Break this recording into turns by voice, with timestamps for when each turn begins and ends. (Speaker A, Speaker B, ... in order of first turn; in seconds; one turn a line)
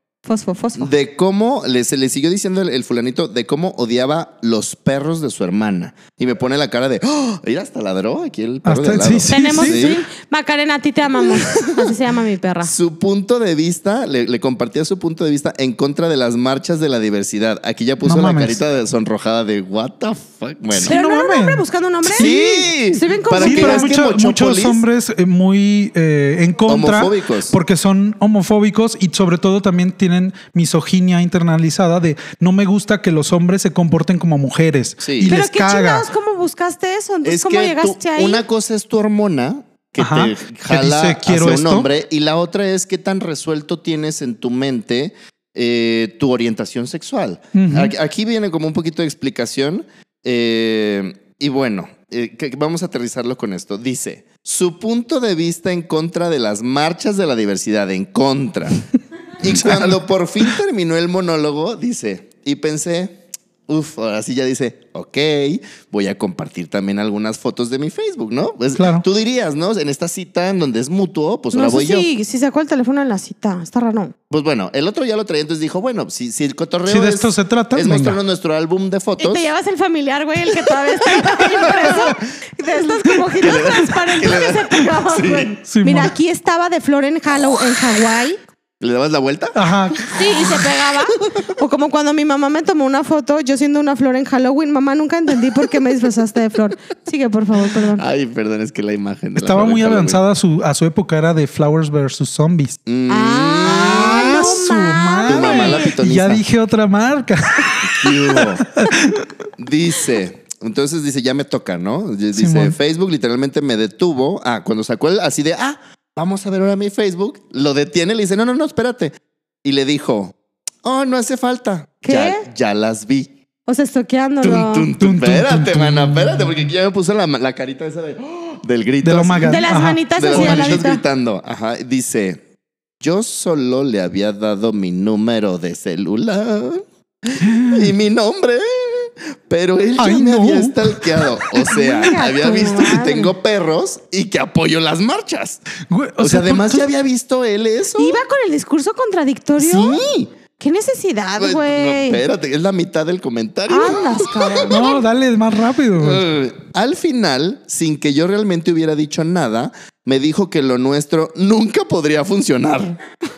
Speaker A: 0.2-0.9
Speaker B: 0.8-10.0
Speaker C: 8.7-9.9
Speaker A: 9.3-12.7
Speaker B: 11.2-11.9
Speaker B: 12.6-21.0
Speaker C: 18.0-18.6
Speaker C: 20.7-22.7
Speaker A: 20.9-23.9
Speaker B: 22.1-24.8
Speaker C: 23.4-36.1
Speaker B: 26.7-27.6
Speaker B: 35.0-35.4
Speaker A: 35.3-38.4
Speaker B: 37.2-58.9
Speaker C: 40.0-41.9
Speaker C: 47.5-47.9
Speaker B: 59.4-63.2
Speaker C: 59.5-60.0
Speaker B: 63.7-72.1
Speaker C: 68.8-69.0
Speaker A: 71.5-74.1
Speaker B: 74.3-79.5
Speaker C: 76.9-78.2
Speaker A: 79.2-88.4
Speaker B: 81.3-82.2
Speaker B: 83.4-85.5
Speaker C: 85.7-86.1
Speaker B: 88.8-90.6
Speaker C: 89.5-90.0
Speaker A: 90.1-98.0
Speaker B: 98.0-100.2
Speaker C: 99.4-102.8
Speaker B: 102.9-104.6
Speaker A: 103.1-105.9
Speaker C: 103.6-109.3
Speaker B: 105.2-106.4
Speaker B: 107.8-108.7
Speaker B: 109.6-123.3
Speaker C: 112.3-112.8
Speaker A: 122.0-122.5
Speaker A: 123.7-124.9
Speaker B: 124.4-132.4
Speaker C: 125.0-126.6
Speaker C: 129.0-130.9
Speaker A: 129.4-131.0
Speaker B: 133.0-145.6
Speaker C: 137.4-137.9
Speaker C: 140.0-141.7
Speaker A: 141.6-143.3
Speaker C: 145.8-146.9
Speaker B: 146.2-148.2
Speaker A: 148.0-150.0
Speaker B: 149.6-150.3
Speaker A: 150.6-152.2
Speaker B: 151.4-154.8
Speaker A: 153.7-155.0
Speaker C: 154.7-156.3
Speaker B: 156.0-163.0